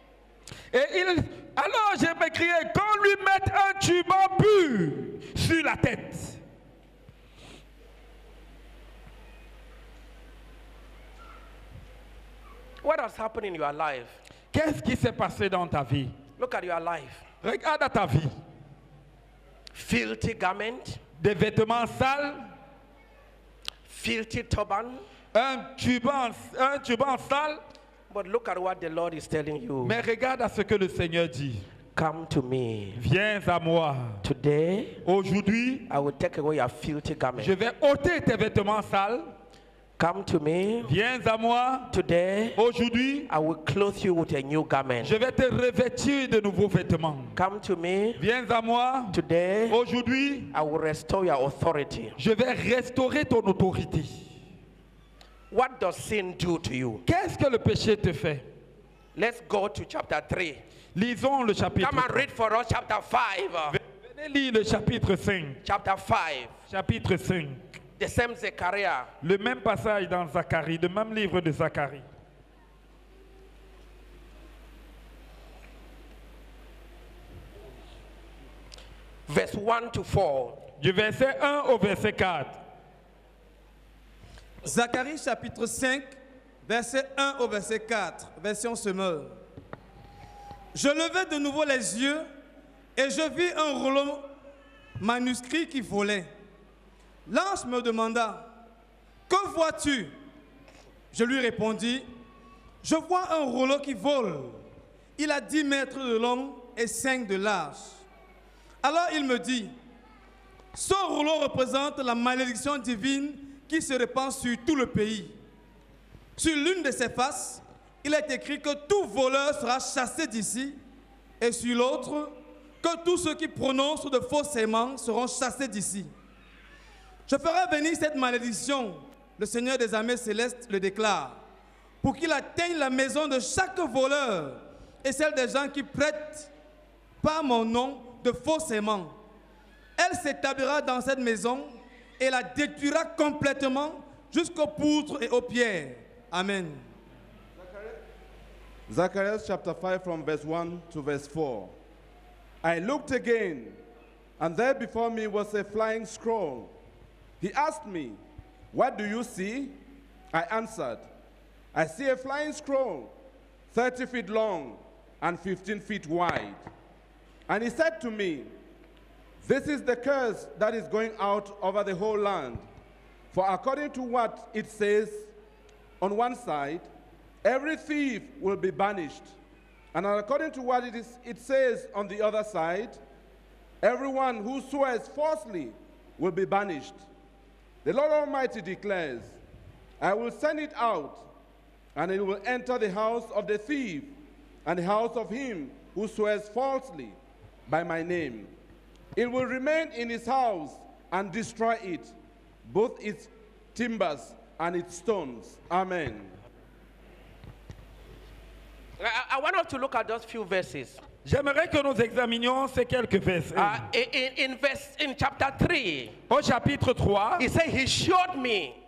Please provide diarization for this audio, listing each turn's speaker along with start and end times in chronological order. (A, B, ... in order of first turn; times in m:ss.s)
0:00.7-0:06.4 A
0:12.8-0:14.2 B
0:14.5-0:16.1 A
0:16.4-0:17.2 B
0:17.4-0:18.4 A
0:19.7-0:21.0 B
0:21.2-0:22.5 A
0:23.9-0:25.0 B
0:25.3-0:27.6 A
0:28.1-0:30.0 B
0:29.8-0:31.6 A
0:32.0-0:33.0 B
0:33.0-0:34.2 A
0:34.2-0:35.0 B
0:35.0-0:35.9 A
0:35.9-0:37.5 B
0:37.4-0:39.3 A
0:40.0-0:40.9 B
0:40.8-0:41.9 A
0:41.9-0:42.6 B
0:42.6-0:43.3 A
0:43.3-0:45.1 B
0:45.0-0:47.4 A
0:47.4-0:48.2 B
0:48.2-0:49.2 A
0:49.1-0:49.8 B
0:49.7-0:50.5 A
0:50.5-0:52.1 B
0:52.2-0:54.3 A
0:55.5-0:57.0 B
0:57.1-0:58.4 A
0:59.2-1:00.6 B
1:00.9-1:02.2 A
1:01.8-1:03.8 B
1:03.7-1:05.6 A
1:05.6-1:06.5 B
1:06.7-1:07.6 A
1:08.0-1:09.1 B
1:09.2-1:12.0 A
1:19.3-1:20.6 B
1:20.8-1:22.6 A
1:24.6-1:26.1 C
1:26.6-1:29.4 C
1:30.7-1:32.3 C
1:33.0-1:34.3 C
1:35.0-1:36.3 C
1:37.3-1:38.4 C
1:39.3-1:40.1 C
1:41.1-1:42.1 C
1:42.8-1:44.6 C
1:45.2-1:48.0 C
1:48.8-1:49.7 C
1:50.7-1:55.3 C
1:56.4-2:00.8 C
2:01.4-2:06.1 C
2:07.3-2:11.4 C
2:12.0-2:16.5 C
2:17.2-2:19.1 C
2:20.0-2:26.8 C
2:27.6-2:28.0 D
2:28.9-2:31.7 D
2:32.6-2:33.8 D
2:34.4-2:36.7 D
2:37.4-2:38.2 D
2:38.7-2:39.8 D
2:40.3-2:41.1 D
2:41.7-2:43.1 D
2:43.7-2:46.6 D
2:47.5-2:48.5 D
2:49.4-2:52.7 D
2:53.3-2:55.3 D
2:56.0-2:56.9 D
2:57.4-2:59.3 D
2:59.9-3:03.0 D
3:03.8-3:07.0 D
3:07.8-3:09.4 D
3:10.0-3:11.3 D
3:11.9-3:14.1 D
3:14.6-3:18.5 D
3:19.2-3:22.1 D
3:22.6-3:26.4 D
3:29.0-3:31.0 B
3:31.2-3:33.8 A
3:33.5-3:36.2 B
3:36.3-3:37.4 A
3:37.4-3:38.8 B